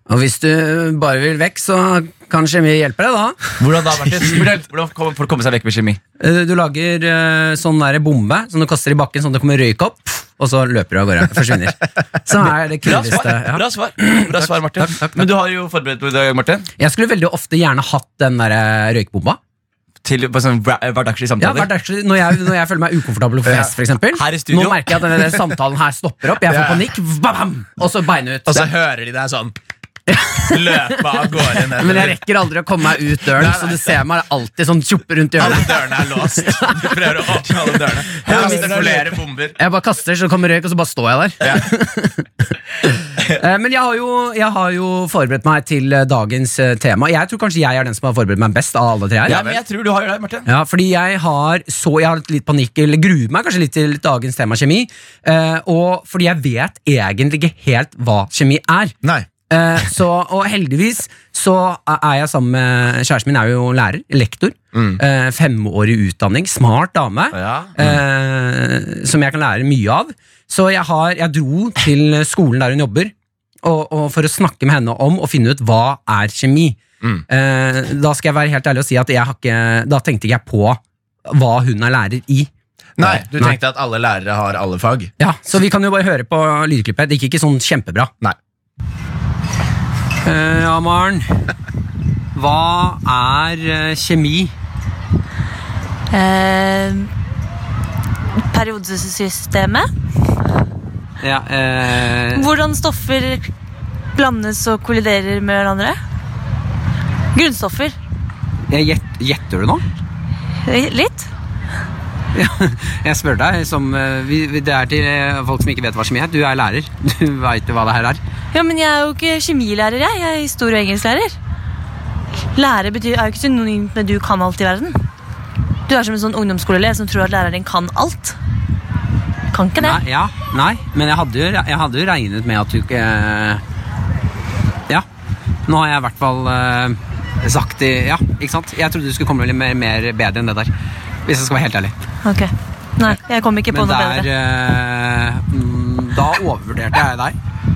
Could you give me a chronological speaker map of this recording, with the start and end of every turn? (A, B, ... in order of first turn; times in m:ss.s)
0:00.1-0:03.4 A
0:03.6-0:06.0 B
0:06.2-0:15.2 A
0:12.8-0:16.7 B
0:16.8-0:19.4 A
0:20.0-0:21.7 B
0:21.4-0:28.7 A
0:23.4-0:23.7 C
0:24.1-0:24.9 B
0:26.4-0:26.9 C
0:28.5-0:29.6 C
0:30.1-0:31.0 A
0:30.4-0:32.2 C
0:31.8-0:36.9 A
0:33.4-0:33.9 C
0:35.4-0:39.6 C
0:38.2-0:39.2 B
0:39.6-0:42.5 A
0:43.2-0:49.4 A
0:49.3-0:50.5 B
0:49.3-0:49.6 C
0:50.5-0:59.0 A
0:59.0-0:59.3 C
0:59.5-1:22.5 A
1:04.7-1:05.0 C
1:07.3-1:07.7 B
1:23.0-1:25.1 C
1:23.0-1:23.6 A
1:25.2-1:28.1 A
1:30.2-1:31.3 A
1:32.4-1:34.5 A
1:36.1-1:37.1 D
1:38.5-1:39.9 D
1:41.2-1:42.5 A
1:42.4-1:43.5 D
1:44.2-1:46.0 D
1:47.3-1:48.0 D
1:48.7-1:49.8 A
1:50.6-1:51.3 D
1:52.4-1:58.2 A
1:58.5-2:01.4 D
2:02.6-2:05.0 D
2:05.9-2:08.4 D
2:09.5-2:10.0 D
2:09.8-2:13.6 A
2:15.7-2:20.7 A
2:21.3-2:21.9 A
2:22.2-2:24.3 D
2:23.7-2:27.4 A